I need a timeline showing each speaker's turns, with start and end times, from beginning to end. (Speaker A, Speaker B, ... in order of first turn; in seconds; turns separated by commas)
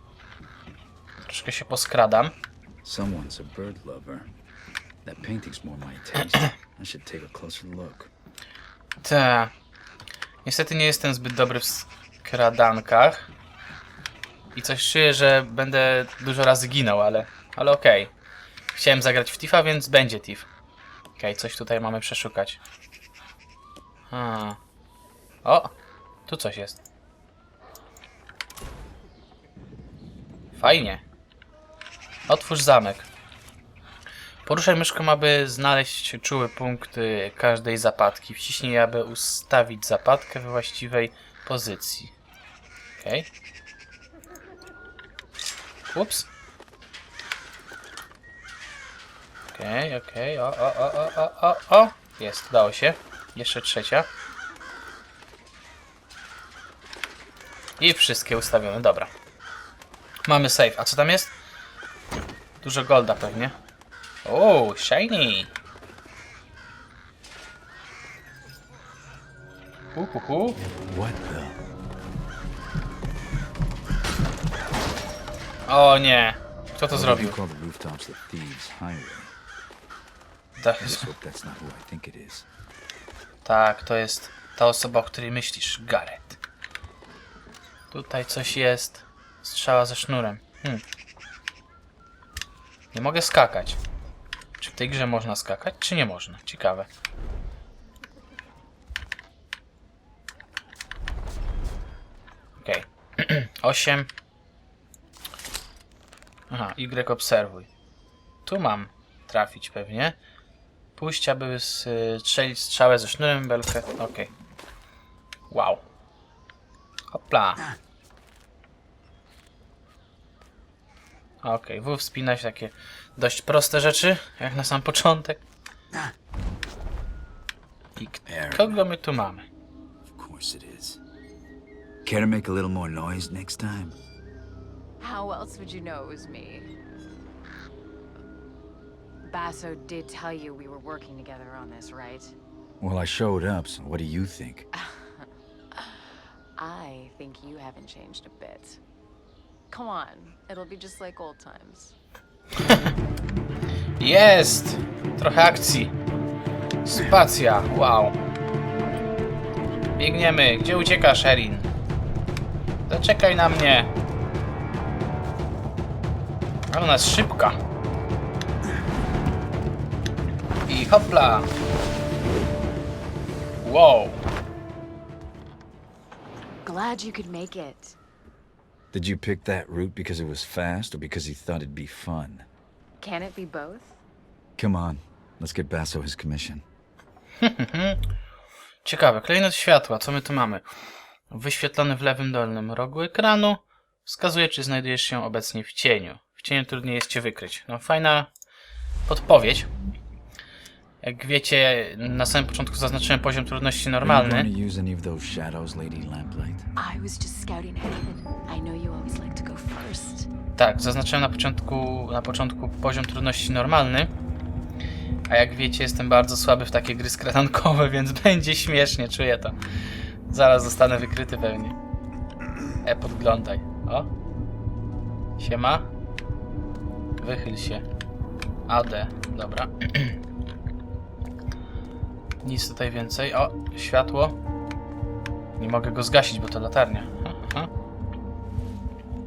Speaker A: 1.2-2.3, Speaker B: 2.8-4.3, Speaker B: 5.0-8.1, Speaker A: 9.0-9.5, Speaker A: 10.4-13.3, Speaker A: 14.5-18.1, Speaker A: 18.8-20.5, Speaker A: 21.2-22.6, Speaker A: 24.1-24.6, Speaker A: 25.4-25.7, Speaker A: 26.3-26.8, Speaker A: 30.6-31.0, Speaker A: 32.3-33.1, Speaker A: 34.5-42.1, Speaker A: 43.0-43.3, Speaker A: 45.9-46.3, Speaker A: 49.5-54.1, Speaker A: 57.8-59.1, Speaker A: 60.2-61.3, Speaker A: 62.6-63.5, Speaker A: 64.2-65.5, Speaker A: 69.9-70.6, Speaker B: 70.6-71.6, Speaker A: 75.7-77.3, Speaker B: 76.9-79.3, Speaker A: 80.6-81.1, Speaker B: 80.8-82.5, Speaker A: 83.4-86.4, Speaker A: 87.9-90.8, Speaker A: 92.9-93.8, Speaker A: 94.6-96.9, Speaker A: 102.6-104.1, Speaker A: 106.5-107.7, Speaker A: 108.5-110.2, Speaker A: 111.0-114.3, Speaker A: 115.5-115.8, Speaker A: 117.1-117.7, Speaker A: 121.4-125.4, Speaker A: 128.0-129.4, Speaker B: 128.2-128.8, Speaker B: 130.0-131.0, Speaker B: 132.0-134.0, Speaker C: 135.0-136.8, Speaker C: 139.2-142.3, Speaker B: 142.8-144.7, Speaker C: 144.8-146.0, Speaker C: 146.6-148.8, Speaker C: 149.7-151.9, Speaker A: 152.6-152.9, Speaker A: 154.0-156.0, Speaker A: 156.8-158.2, Speaker A: 160.0-161.7, Speaker A: 162.9-163.9, Speaker A: 166.7-167.6, Speaker A: 170.7-171.5, Speaker A: 173.6-174.2, Speaker C: 176.6-178.0, Speaker B: 178.9-182.5, Speaker C: 183.0-184.0, Speaker B: 184.6-186.6, Speaker A: 187.4-188.0, Speaker A: 188.8-190.7, Speaker A: 191.3-198.3, Speaker A: 199.1-199.7, Speaker A: 201.0-204.5, Speaker B: 204.0-206.7, Speaker C: 206.8-210.3, Speaker A: 210.6-214.1, Speaker A: 215.3-219.6, Speaker A: 220.3-221.7, Speaker A: 222.8-224.1, Speaker A: 225.4-225.9, Speaker A: 227.2-227.8, Speaker A: 228.7-230.2, Speaker A: 232.4-234.4, Speaker A: 235.6-237.7